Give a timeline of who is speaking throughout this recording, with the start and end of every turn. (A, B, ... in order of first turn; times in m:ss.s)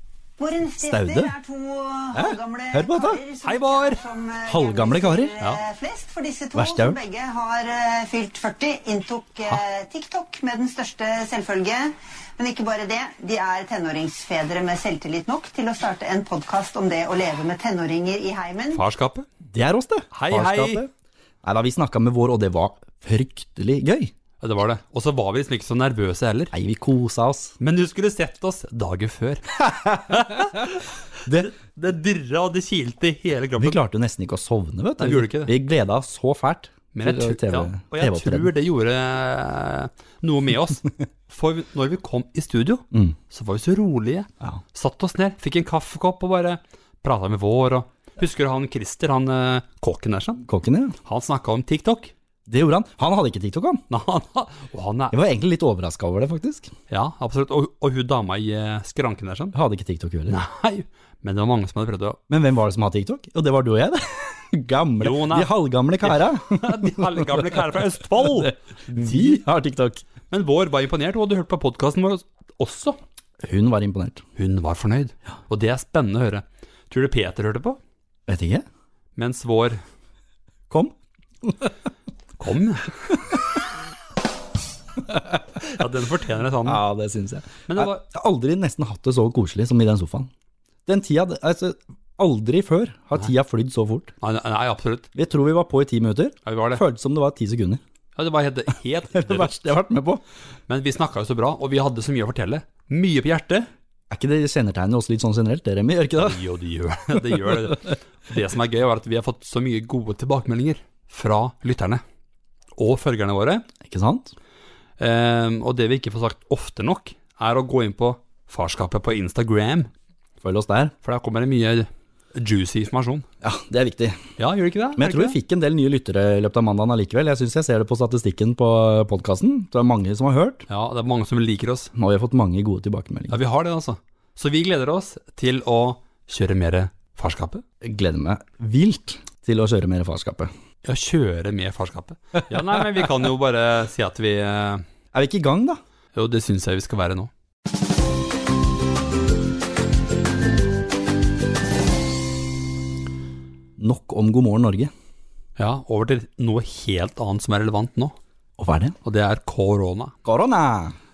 0:00.4-0:18.8 A
0:00.8-0:01.3 B
0:02.1-0:03.2 B
0:03.4-0:04.0 C
0:04.5-0:05.3 B
0:06.5-0:07.0 B
0:18.7-0:19.3 C
0:19.5-0:20.9 B
0:20.1-0:20.8 C
0:21.4-0:24.1 B
0:24.4-0:26.5 C
0:26.5-0:27.6 B
0:27.6-0:33.8 C
0:29.6-0:30.7 B
0:33.6-0:38.5 B
0:35.0-0:35.5 C
0:36.9-0:50.4 C
0:50.4-0:51.0 B
0:51.0-0:52.1 C
0:52.5-0:53.8 B
0:53.9-0:55.2 C
0:55.1-0:56.7 B
0:56.9-0:59.6 C
0:59.5-1:00.4 B
1:00.3-1:02.2 C
1:02.3-1:07.6 B
1:05.0-1:09.4 C
1:08.2-1:10.0 B
1:10.3-1:13.0 C
1:13.4-1:14.2 B
1:14.4-1:17.8 C
1:18.3-1:18.6 B
1:19.2-1:19.8 C
1:20.7-1:21.7 B
1:22.4-1:23.1 C
1:25.1-1:25.4 B
1:25.6-1:26.8 C
1:26.6-1:30.3 B
1:27.7-1:28.0 C
1:30.9-1:34.1 B
1:34.2-1:35.1 C
1:35.2-1:37.8 B
1:36.5-1:36.8 C
1:38.2-1:39.7 C
1:39.1-1:40.2 B
1:40.7-1:43.7 C
1:44.1-1:46.4 B
1:46.2-1:52.0 C
1:47.2-1:47.6 B
1:52.8-1:53.7 C
1:53.8-1:54.3 B
1:55.0-1:59.9 C
2:00.4-2:00.9 B
2:01.0-2:03.3 C
2:03.4-2:04.2 B
2:04.4-2:05.4 C
2:05.0-2:10.7 B
2:10.7-2:11.9 C
2:12.0-2:13.4 B
2:13.3-2:17.6 C
2:17.8-2:20.5 B
2:20.8-2:24.8 C
2:25.1-2:25.8 B
2:26.1-2:27.3 C
2:33.8-2:34.9 B
2:35.6-2:38.2 C
2:38.6-2:39.0 B
2:39.0-2:40.1 C
2:40.2-2:41.0 B